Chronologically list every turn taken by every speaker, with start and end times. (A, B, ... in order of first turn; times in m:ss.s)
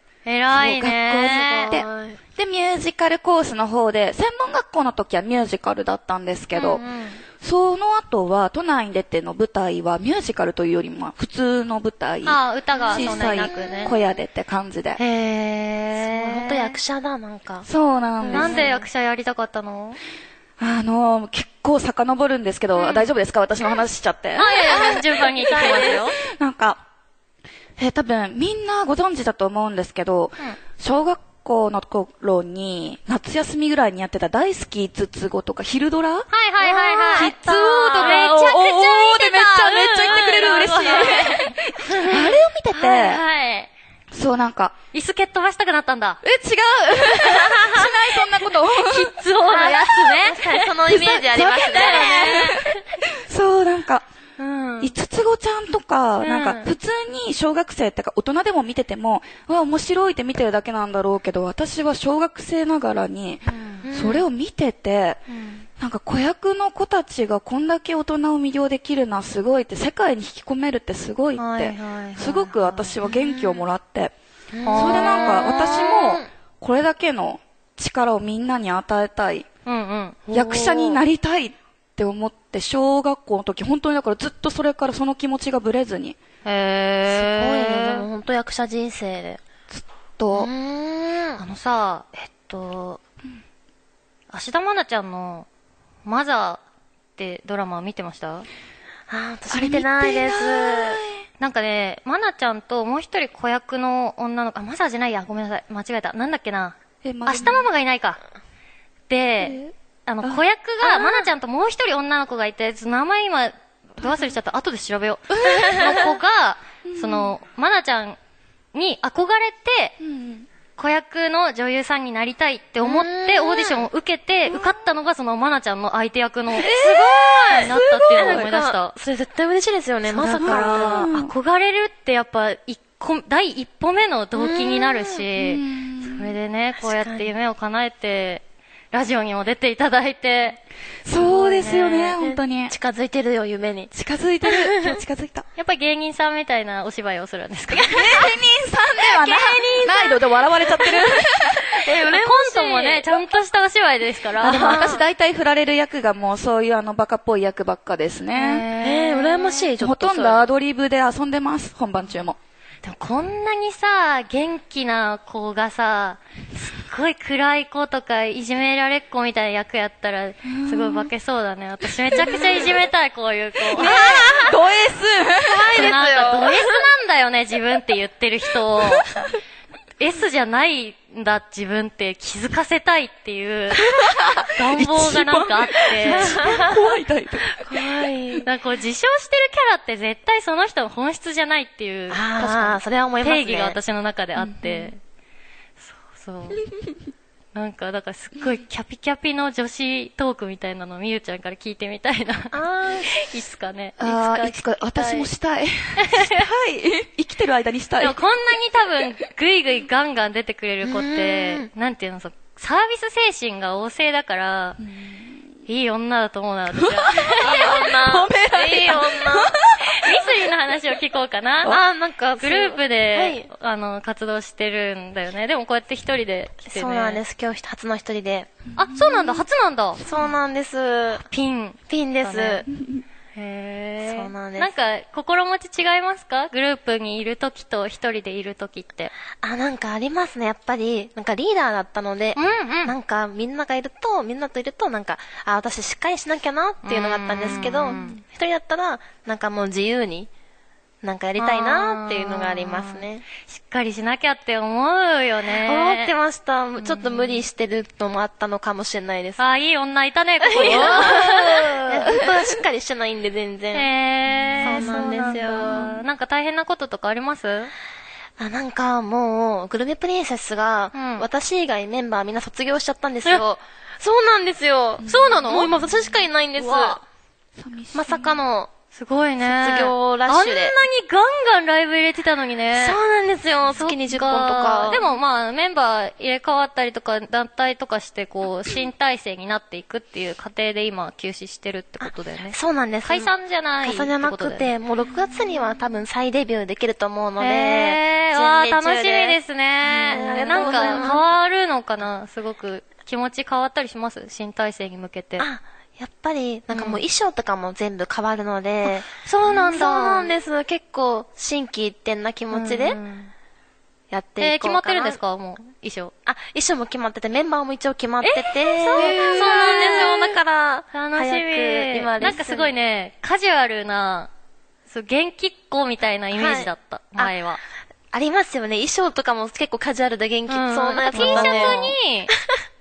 0:00.2-0:01.8 A
0:00.5-0:06.8 B
0:01.2-0:02.2 C
0:06.6-0:07.2 C
0:07.4-0:12.4 B
0:12.2-0:13.9 A
0:12.8-0:14.0 C
0:12.9-0:15.0 B
0:15.0-0:16.8 A
0:16.0-0:17.7 C
0:17.6-0:18.6 B
0:18.2-0:18.8 C
0:18.3-0:20.0 A
0:20.6-0:26.8 B
0:22.8-0:23.1 A
0:24.4-0:26.2 A
0:24.5-0:26.1 C
0:27.8-0:36.3 B
0:36.3-0:43.7 A
0:36.6-0:37.4 C
0:37.1-0:43.2 B
0:37.9-0:38.3 C
0:40.6-0:41.3 C
0:44.1-0:44.7 B
0:44.9-0:46.2 A
0:46.2-0:49.1 B
0:47.0-0:47.9 A
0:48.6-0:52.8 A
0:49.5-0:52.6 C
0:50.9-0:54.0 B
0:54.4-0:54.9 A
0:54.8-1:05.2 B
0:56.2-0:56.7 A
1:03.5-1:04.2 C
1:05.3-1:05.6 A
1:05.8-1:14.1 B
1:11.4-1:13.0 A
1:13.1-1:13.5 C
1:14.5-1:16.3 C
1:14.6-1:15.4 A
1:14.7-1:19.4 B
1:19.6-1:21.0 A
1:20.3-1:26.2 B
1:26.4-1:28.0 A
1:27.1-1:29.4 C
1:29.7-1:30.5 B
1:30.3-1:31.4 C
1:31.4-1:33.0 A
1:34.3-1:35.5 A
1:36.0-1:36.6 A
1:37.2-1:38.5 A
1:39.1-1:41.0 C
1:39.5-1:41.2 B
1:41.4-1:48.2 A
1:47.0-1:47.7 B
1:49.1-1:58.2 A
1:49.4-1:51.3 B
1:54.0-1:54.3 B
1:55.4-1:56.1 B
1:56.8-1:57.3 B
1:58.7-1:59.9 A
2:00.0-2:00.5 B
2:00.8-2:08.9 A
2:02.8-2:03.9 C
2:04.4-2:04.8 B
2:06.6-2:11.1 C
2:06.6-2:08.5 B
2:10.1-2:20.6 A
2:10.4-2:11.3 B
2:14.3-2:15.2 C
2:15.4-2:16.3 B
2:16.8-2:17.3 C
2:21.0-2:22.7 B
2:21.2-2:22.2 A
2:22.2-2:23.9 C
2:23.9-2:25.4 B
2:24.4-2:25.0 C
2:25.6-2:28.2 A
2:27.7-2:28.3 C
2:27.9-2:31.8 B
2:29.1-2:30.2 C
2:29.2-2:30.2 A
2:30.8-2:31.1 C
2:31.7-2:33.2 C
2:31.9-2:34.9 A
2:34.4-2:38.7 B
2:34.4-2:35.0 C
2:38.3-2:39.7 A
2:38.8-2:40.5 C
2:39.8-2:42.4 B
2:42.8-2:54.2 A
2:50.4-2:51.1 B
2:52.1-2:52.7 B
2:52.4-2:52.7 C
2:53.7-2:56.0 B
2:53.8-2:54.6 C
2:55.4-2:56.8 C
2:55.7-2:59.1 A
3:00.0-3:03.9 A
3:04.0-3:07.8 B
3:04.5-3:06.5 A
3:06.0-3:06.8 C
3:07.6-3:08.4 C
3:08.4-3:15.0 A
3:12.1-3:13.8 C
3:14.4-3:14.9 B
3:15.8-3:16.6 A
3:17.5-3:24.0 A
3:22.5-3:23.2 C
3:24.0-3:28.2 B
3:24.0-3:25.3 C
3:26.0-3:26.4 A
3:28.0-3:34.8 A
3:30.8-3:31.7 C
3:34.8-3:35.4 B
3:35.6-3:37.8 A
3:36.8-3:40.4 B
3:37.4-3:39.5 C
3:39.8-3:41.8 A
3:41.6-3:43.5 C
3:42.4-3:47.2 A
3:46.7-3:48.5 C
3:48.8-3:50.0 A
3:48.8-3:49.4 B
3:50.0-3:51.2 C
3:51.3-3:52.7 A
3:51.9-3:52.6 C
3:52.7-3:53.0 B
3:53.3-3:59.1 A
3:54.0-3:54.7 C
3:59.4-4:10.3 C
4:02.4-4:02.9 A
4:06.8-4:08.2 A
4:11.0-4:13.2 C
4:11.4-4:16.1 A
4:15.6-4:19.4 C
4:16.8-4:17.4 A
4:19.4-4:21.8 A
4:20.4-4:25.9 C
4:20.5-4:22.6 B
4:23.7-4:27.7 A
4:24.5-4:26.0 B
4:28.4-4:37.0 C
4:30.9-4:31.2 A
4:35.0-4:35.4 B
4:35.0-4:35.7 A
4:36.6-4:37.0 A
4:37.6-4:38.4 B
4:37.9-4:38.7 C
4:38.9-4:43.0 A
4:39.4-4:40.7 C
4:42.7-4:45.0 C
4:43.7-4:54.7 A
4:52.0-5:01.2 C
4:57.4-5:05.5 A
5:05.4-5:13.0 C
5:06.7-5:07.0 A
5:09.2-5:10.3 A
5:12.5-5:13.3 A
5:14.1-5:15.2 C
5:14.4-5:16.1 A
5:16.2-5:22.7 C
5:18.2-5:20.4 A
5:19.0-5:19.4 B
5:20.9-5:24.3 A
5:24.9-5:27.6 A
5:26.3-5:27.3 C
5:28.1-5:32.6 C
5:30.5-5:32.3 A
5:31.1-5:31.8 B